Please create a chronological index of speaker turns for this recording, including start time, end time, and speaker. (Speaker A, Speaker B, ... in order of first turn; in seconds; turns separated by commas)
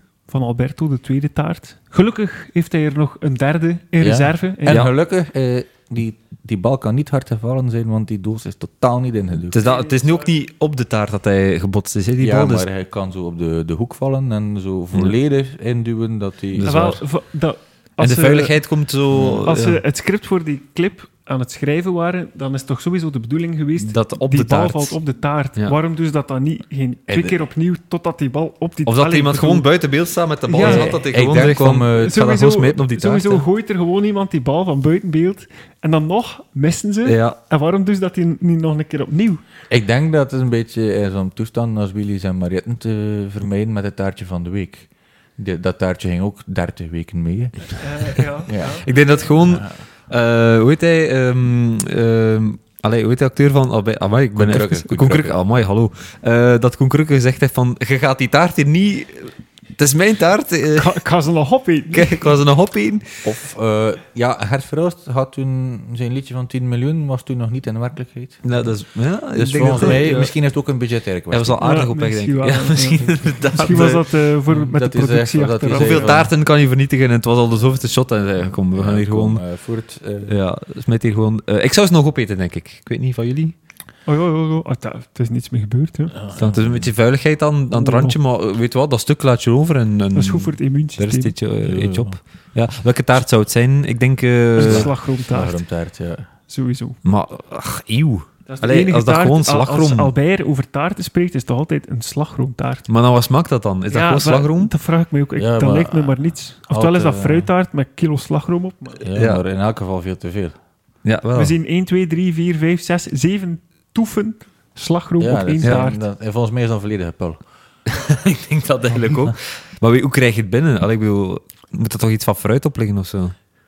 Speaker A: 0.3-4.8, Speaker B: 4.0-9.6, Speaker C: 4.7-4.9, Speaker C: 9.5-12.7, Speaker A: 9.6-10.3, Speaker B: 12.2-16.9, Speaker C: 16.5-17.0, Speaker A: 16.6-18.6, Speaker C: 18.0-19.8, Speaker B: 19.1-19.5, Speaker A: 19.4-29.7, Speaker C: 23.8-25.0, Speaker B: 27.1-27.4, Speaker C: 28.9-33.5, Speaker A: 30.5-31.0, Speaker B: 30.6-32.2, Speaker A: 31.9-39.4, Speaker C: 37.0-37.4, Speaker B: 39.7-47.8, Speaker A: 47.8-49.0, Speaker B: 48.5-48.8, Speaker C: 48.8-61.0, Speaker B: 49.4-49.7, Speaker B: 54.3-55.4, Speaker A: 60.8-62.2, Speaker C: 61.9-63.2, Speaker B: 63.2-68.5, Speaker C: 68.4-70.3, Speaker B: 69.3-71.6, Speaker A: 69.8-70.1, Speaker C: 71.3-74.0, Speaker A: 71.6-76.2, Speaker B: 74.5-76.3, Speaker C: 75.7-79.4, Speaker B: 78.7-80.3, Speaker C: 80.3-83.5, Speaker A: 84.1-86.2, Speaker B: 86.1-86.9, Speaker C: 86.3-94.9, Speaker A: 87.7-88.2, Speaker A: 90.2-91.3, Speaker B: 91.6-92.2, Speaker A: 94.6-95.6, Speaker B: 94.6-96.3, Speaker A: 96.5-97.0, Speaker C: 97.0-100.1, Speaker A: 98.5-102.9, Speaker C: 102.9-104.7, Speaker A: 103.9-109.0, Speaker B: 105.4-106.2, Speaker B: 106.7-107.5, Speaker B: 109.0-110.6, Speaker C: 109.1-109.4, Speaker C: 111.0-111.6, Speaker A: 111.3-116.0, Speaker B: 115.2-117.4, Speaker C: 117.9-123.3, Speaker B: 118.9-119.3